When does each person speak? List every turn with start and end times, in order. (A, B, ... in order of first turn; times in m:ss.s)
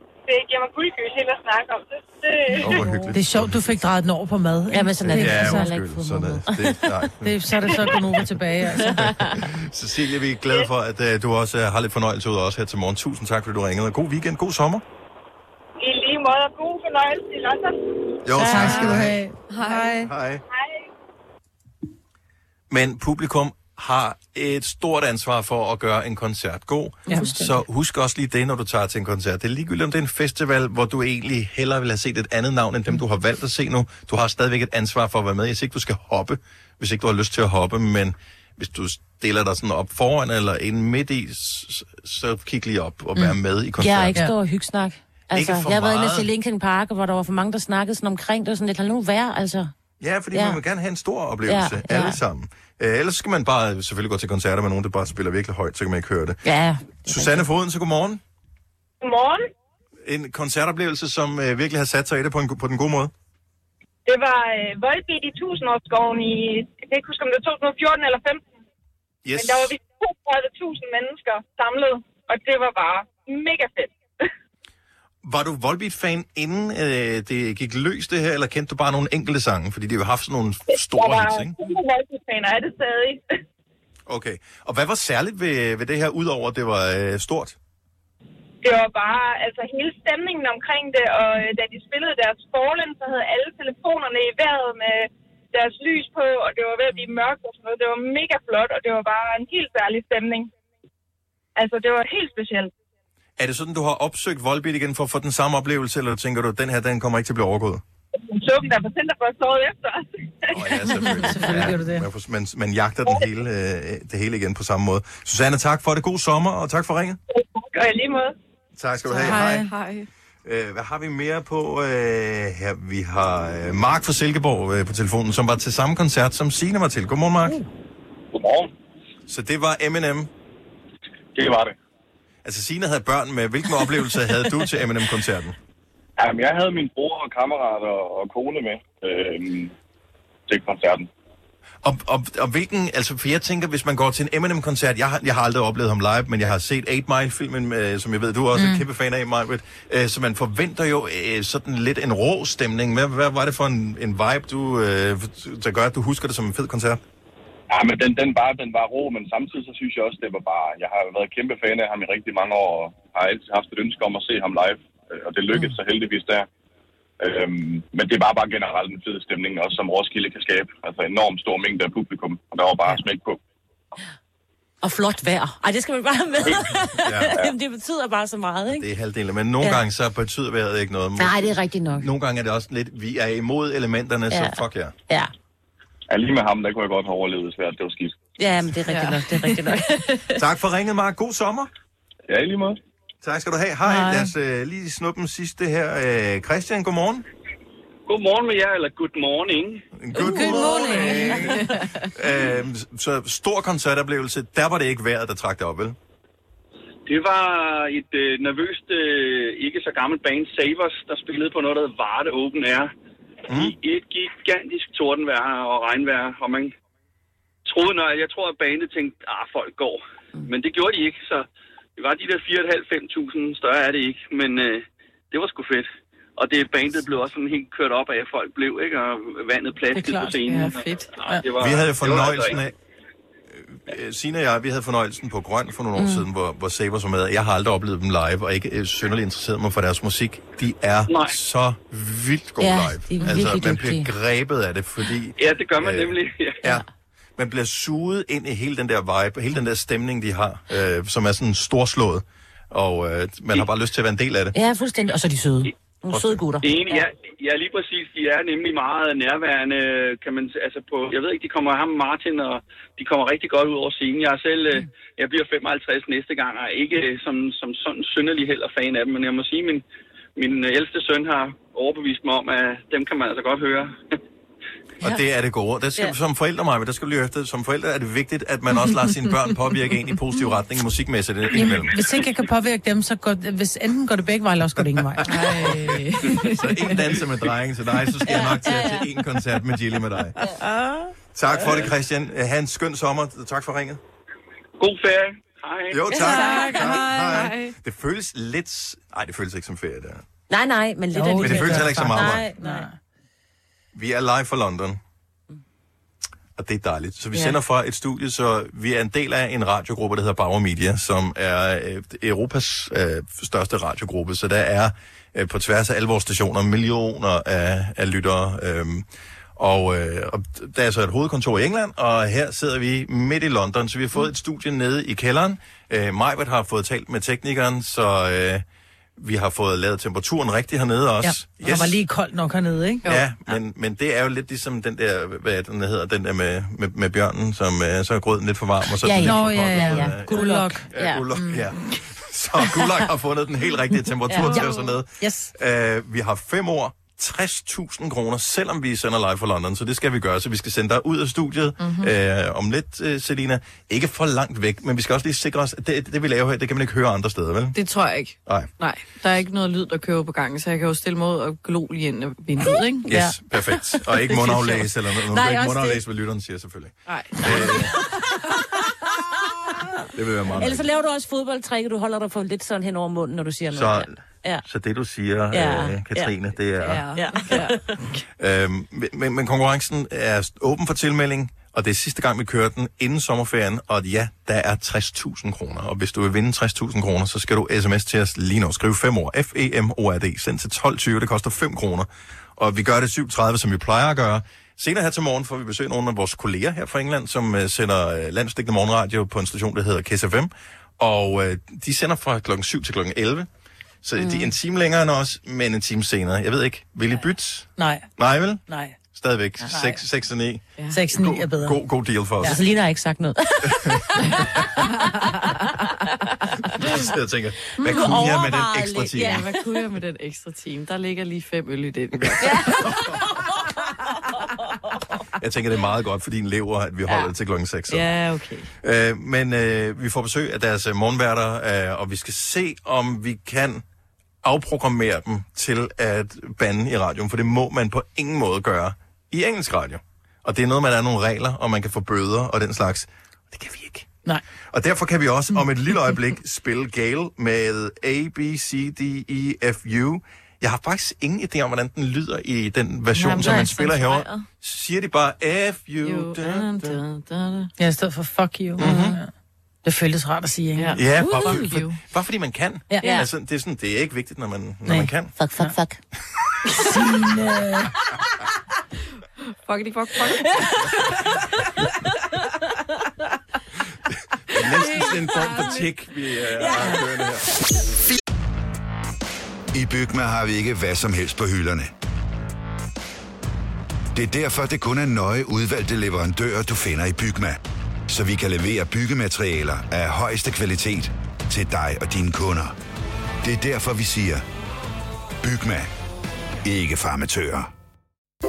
0:02.6-0:03.8 A
0:03.1-0:05.7 B
0:04.7-0:06.8 C
0:05.0-0:08.0 A
0:07.2-0:09.4 B
0:09.0-0:14.8 A
0:15.8-0:17.8 D
0:18.2-0:19.2 A
0:18.4-0:20.1 B
0:18.4-0:19.0 C
0:19.5-0:20.1 E
0:20.0-0:20.4 A
0:22.7-0:44.2 A
0:27.1-0:27.5 B
0:43.8-0:49.7 C
0:45.3-0:46.3 A
0:50.0-0:56.4 A
0:50.3-0:50.6 C
0:51.5-0:52.2 C
0:56.4-0:57.4 C
0:57.0-0:58.2 A
0:59.0-0:59.5 D
1:00.0-1:03.1 A
1:04.0-1:08.5 D
1:09.2-1:09.8 A
1:09.3-1:14.3 D
1:15.2-1:21.6 A
1:20.7-1:23.4 D
1:24.1-1:27.6 A
1:28.6-1:40.5 D
1:41.6-1:42.7 D
1:43.4-1:47.8 A
1:48.1-1:50.6 D
1:50.5-1:57.2 A
1:51.0-1:52.1 B
1:57.3-1:58.3 D
1:58.8-1:59.6 A
1:59.1-2:00.1 E
1:59.2-1:59.7 B
2:00.4-2:07.6 A
2:08.3-2:08.7 F
2:09.3-2:10.3 A
2:11.3-2:11.8 F
2:12.4-2:15.6 A
2:16.2-2:19.7 F
2:20.5-2:21.1 F
2:21.8-2:37.0 A
2:28.5-2:28.8 B
2:37.7-2:46.4 F
2:47.2-2:53.4 F
2:54.8-2:58.9 C
2:57.0-2:57.4 A
2:58.7-3:04.9 A
3:01.2-3:02.1 C
3:04.3-3:04.6 C
3:06.1-3:08.2 F
3:08.4-3:10.2 C
3:08.9-3:10.2 E
3:10.4-3:11.7 A
3:12.3-3:12.8 F
3:13.2-3:17.2 A
3:18.1-3:19.8 G
3:20.0-3:25.9 A
3:20.2-3:21.5 C
3:20.2-3:21.4 B
3:21.0-3:21.5 E
3:27.1-3:32.9 G
3:33.5-3:33.7 A
3:33.5-3:36.7 G
3:37.6-3:52.6 G
3:49.9-3:50.7 B
3:50.5-3:51.2 E
3:51.6-3:52.7 A
3:53.5-4:06.8 A
3:56.0-3:56.2 C
4:01.1-4:01.3 G
4:02.6-4:04.1 C
4:05.4-4:06.6 G
4:07.4-4:14.6 A
4:14.5-4:17.0 C
4:16.1-4:16.4 A
4:16.6-4:29.8 G
4:30.4-4:34.0 G
4:35.0-4:42.0 A
4:41.5-4:45.7 B
4:45.2-4:47.0 E
4:45.4-4:50.4 A
4:48.3-4:49.0 C
4:51.3-4:54.0 A
4:54.8-4:56.1 G
4:55.9-5:00.2 A
4:56.1-4:57.0 C
4:56.3-4:57.7 E
5:00.5-5:02.9 C
5:01.1-5:02.9 B
5:01.4-5:02.5 A
5:03.9-5:05.0 A
5:06.6-5:28.6 A
5:29.2-5:32.0 A
5:31.2-5:33.0 B
5:33.0-5:57.8 A
5:39.0-5:41.2 C
5:39.2-5:40.9 B
5:44.3-5:44.7 C
5:44.4-5:44.7 B
5:45.2-5:45.5 B
5:51.8-5:52.1 E
5:57.7-6:03.0 E
6:03.0-6:08.0 A
6:05.4-6:05.9 C
6:07.1-6:07.7 E
6:10.1-6:10.9 A
6:10.6-6:14.6 C
6:13.7-6:17.6 A
6:15.5-6:16.3 C
6:16.8-6:18.2 E
6:17.1-6:18.0 C
6:18.4-6:43.5 A
6:44.0-6:52.6 A
6:47.8-6:48.1 B
6:48.7-6:49.0 B
6:49.6-6:50.0 B
6:50.9-6:51.8 B
6:52.4-6:54.0 C
6:53.6-6:54.4 A
6:56.8-6:59.5 A
6:57.8-6:59.7 C
6:57.8-6:58.2 E
6:59.2-7:02.9 E
7:02.4-7:03.0 C
7:05.4-7:08.1 A
7:07.9-7:08.7 E
7:08.8-7:13.8 A
7:14.4-7:24.1 A
7:24.7-7:37.0 A
7:33.1-7:34.4 E
7:36.0-7:37.7 E
7:37.8-7:39.3 B
7:38.8-7:39.2 A
7:38.8-7:39.2 C
7:39.8-7:41.0 B
7:40.8-7:42.0 E
7:40.9-7:45.3 A
7:41.2-7:41.7 C
7:43.0-7:43.3 C
7:44.9-7:46.0 C
7:46.7-7:47.9 B
7:49.6-7:50.9 E
7:54.5-7:57.5 A
7:54.6-7:55.8 E
7:59.7-8:01.9 H
8:04.1-8:12.7 H
8:13.4-8:14.4 H
8:15.4-8:15.9 H
8:16.6-8:17.7 H